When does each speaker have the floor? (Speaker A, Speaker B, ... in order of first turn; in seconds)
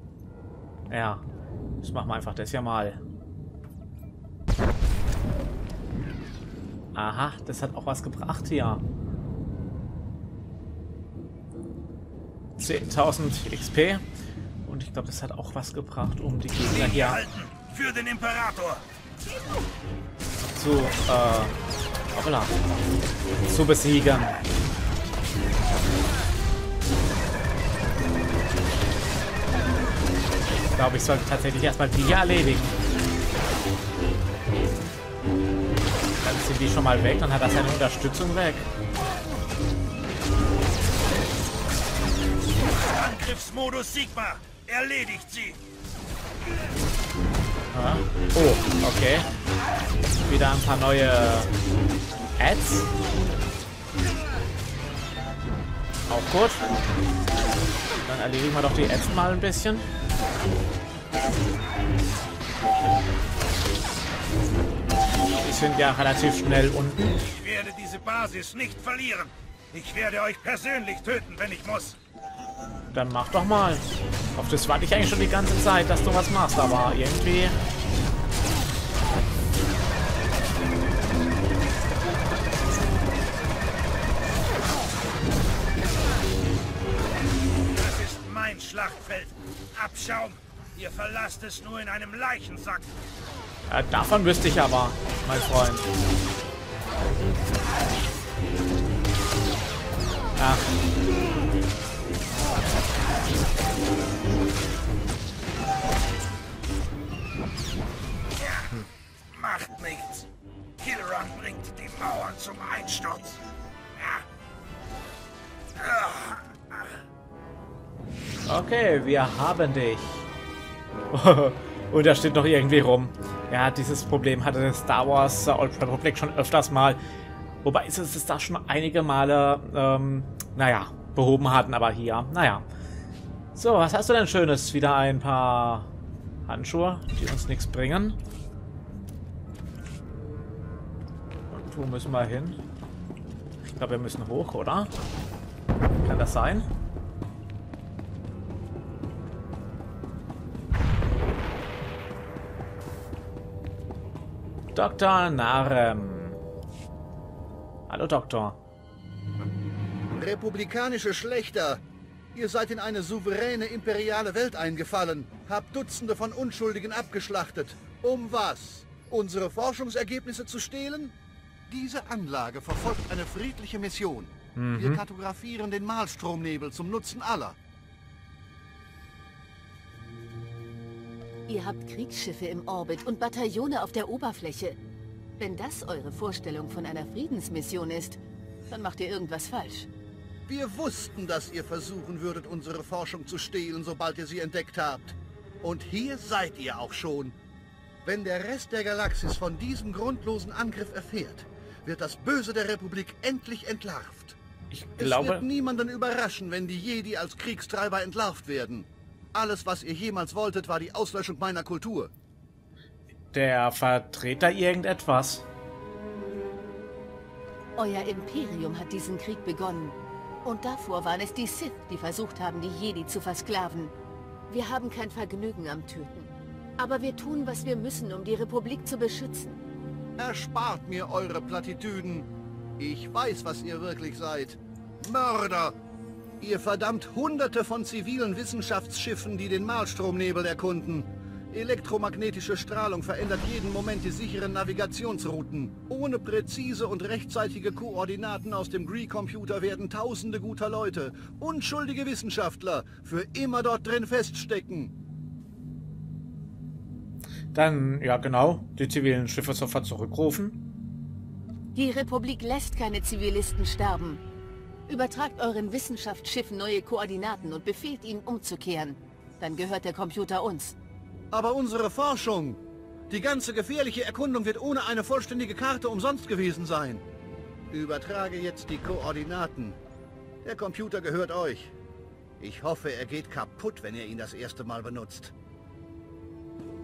Speaker A: 0.9-1.2, 1.8-3.0, 6.9-8.8, 12.6-14.0, 14.7-17.2, 20.5-21.6, 22.1-22.6, 23.5-24.4, 30.7-32.8, 36.1-38.7, 47.7-49.3, 50.2-51.5, 52.4-52.9, 56.1-56.6, 57.9-59.9, 65.3-67.2, 72.9-77.6, 93.7-95.9, 100.3-100.7, 118.4-120.3, 121.1-127.0, 127.6-132.6, 133.5-135.9, 136.4-138.2, 141.5-142.6, 143.6-144.9, 145.9-146.7, 154.7-156.4, 157.9-158.6, 174.6-175.0, 204.7-205.4, 213.3-215.5, 257.5-260.6
Speaker B: 16.7-18.8, 42.7-45.6, 67.3-72.0, 87.7-92.9, 108.4-108.7, 109.3-110.2, 110.8-113.4, 114.0-114.2, 115.8-116.9
Speaker C: 160.1-161.8, 162.3-171.1, 171.7-177.6, 190.5-197.3, 198.0-204.4, 205.0-212.1, 230.2-232.3, 232.8-235.8, 236.4-254.9, 271.3-277.0, 277.7-279.8, 280.4-281.7, 282.4-285.3
Speaker D: 181.5-184.8, 185.4-189.9, 217.8-223.9, 224.5-229.6, 261.7-264.2, 264.9-270.8